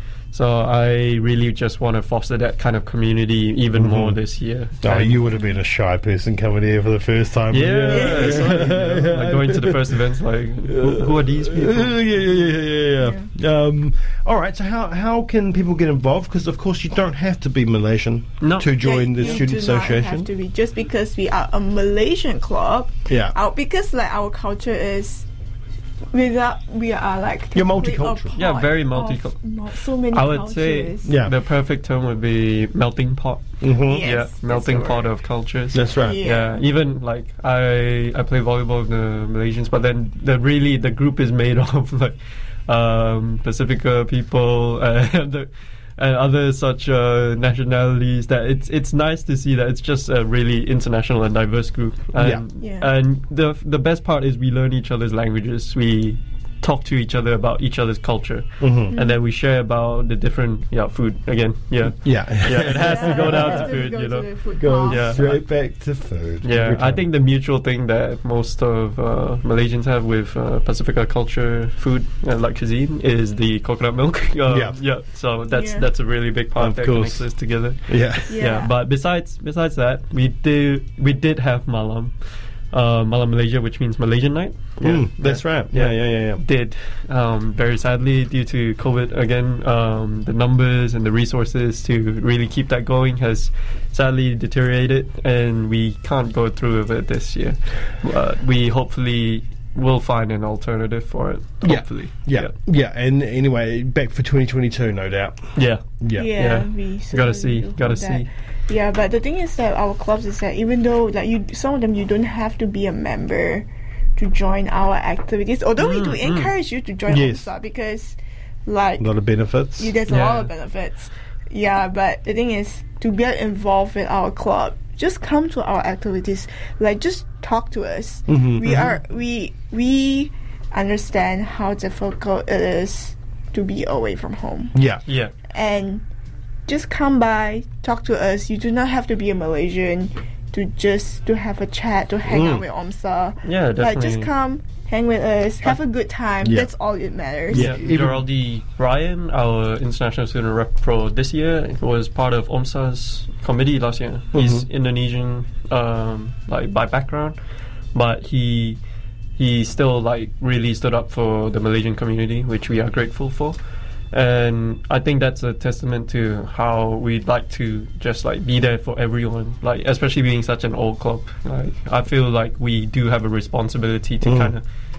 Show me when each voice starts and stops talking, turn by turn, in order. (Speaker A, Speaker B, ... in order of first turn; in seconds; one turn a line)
Speaker A: 0.3-5.2
Speaker B: 3.8-4.2
Speaker B: 4.8-10.0
Speaker A: 7.5-12.2
Speaker C: 7.9-8.6
Speaker B: 10.6-20.3
Speaker C: 13.0-13.3
Speaker A: 18.4-19.5
Speaker C: 18.8-25.3
Speaker B: 23.1-23.4
Speaker C: 26.1-31.1
Speaker B: 27.5-28.4
Speaker A: 28.4-29.4
Speaker A: 30.1-33.5
Speaker B: 31.1-31.3
Speaker B: 33.6-34.1
Speaker C: 33.9-35.1
Speaker A: 34.0-42.2
Speaker B: 35.7-36.2
Speaker C: 36.0-36.6
Speaker A: 42.7-65.4
Speaker B: 52.2-52.4
Speaker C: 52.6-52.9
Speaker B: 58.6-58.9
Speaker C: 58.9-59.2
Speaker B: 62.0-63.7
Speaker C: 62.7-65.2
Speaker B: 64.6-67.0
Speaker A: 66.4-82.2
Speaker B: 74.5-74.8
Speaker C: 75.5-75.9
Speaker B: 76.6-77.3
Speaker B: 77.9-78.4
Speaker C: 78.3-78.7
Speaker A: 82.7-102.5
Speaker B: 84.8-86.4
Speaker B: 101.6-105.4
Speaker A: 105.5-105.8
Speaker B: 106.0-106.3
Speaker C: 106.2-119.1
Speaker A: 106.3-108.3
Speaker A: 115.8-116.5
Speaker B: 117.1-117.5
Speaker B: 119.0-120.0
Speaker C: 119.8-134.8
Speaker A: 120.1-120.5
Speaker B: 128.3-128.9
Speaker A: 128.7-128.9
Speaker B: 134.7-135.0
Speaker A: 135.1-135.3
Speaker C: 135.5-136.0
Speaker C: 136.7-147.7
Speaker B: 142.3-142.7
Speaker A: 143.4-144.3
Speaker B: 146.4-146.7
Speaker B: 147.5-148.3
Speaker A: 147.5-157.4
Speaker B: 154.3-154.7
Speaker A: 157.9-158.8
Speaker A: 159.4-163.6
Speaker A: 164.1-174.7
Speaker B: 174.2-174.6